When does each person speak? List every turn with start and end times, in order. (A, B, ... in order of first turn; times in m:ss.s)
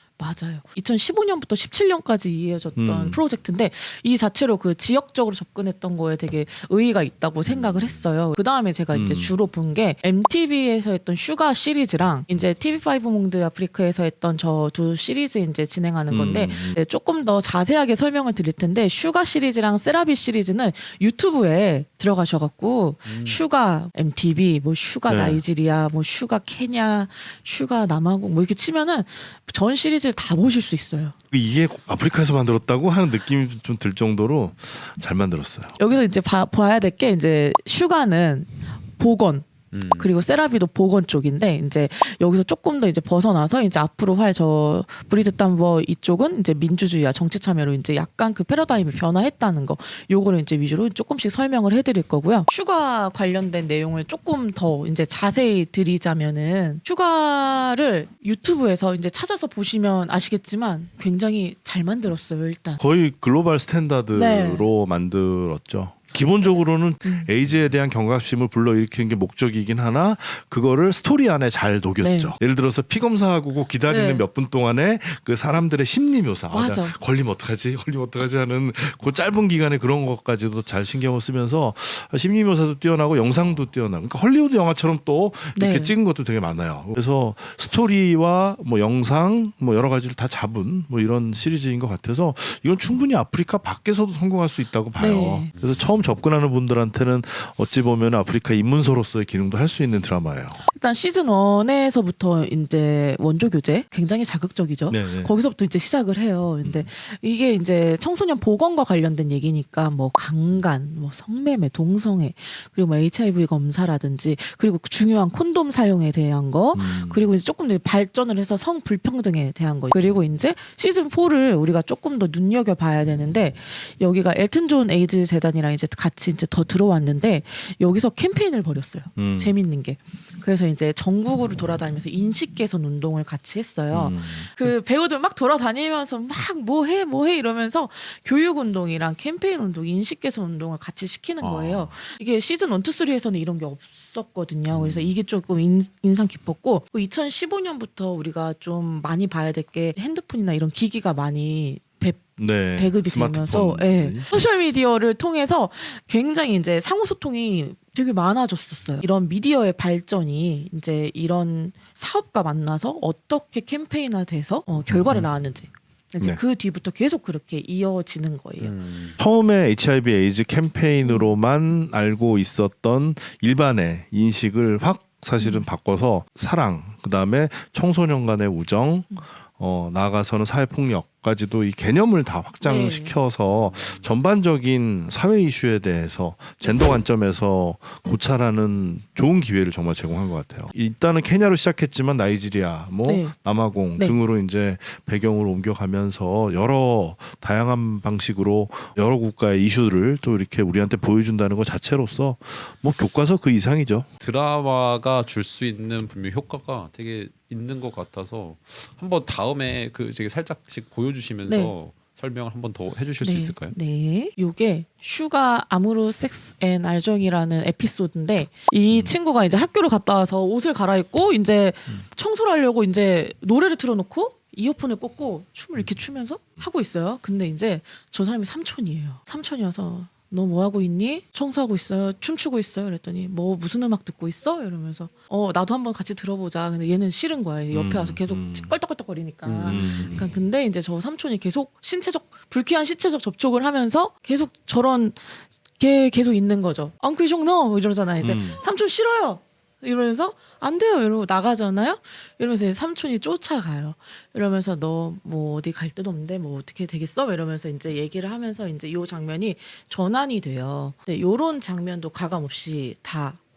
0:00.2-0:31.2 A
0:02.8-0:03.2 B
0:07.4-0:08.1 C
0:08.9-0:09.3 B
0:16.1-0:16.8 B
0:23.0-0:23.4 C
0:25.0-0:25.4 B
0:31.3-0:35.8 B
0:35.8-1:02.8 A
0:39.7-0:40.1 C
1:02.8-1:40.6 B
1:04.1-1:04.7 A
1:07.0-1:07.3 A
1:12.0-1:12.3 A
1:13.9-1:14.2 A
1:16.5-1:17.0 A
1:25.5-1:25.9 A
1:35.0-1:35.5 A
1:40.6-2:48.7 A
1:44.9-1:45.3 B
1:46.6-1:46.9 B
1:56.7-1:57.3 B
2:09.2-2:09.6 B
2:13.9-2:14.7 B
2:21.4-2:21.9 C
2:24.7-2:25.1 B
2:32.4-2:34.3 B
2:44.9-2:45.3 B
2:48.6-2:49.2 C
2:49.2-3:24.1 B
2:51.0-2:51.3 A
2:55.4-2:55.7 A
3:02.6-3:03.2 A
3:03.5-3:04.1 C
3:13.0-3:13.3 A
3:24.2-3:33.8 C
3:31.4-3:31.7 A
3:33.2-4:23.4 A
3:57.7-3:58.7 B
3:59.4-4:00.1 C
3:59.7-4:00.2 B
4:08.2-4:08.6 B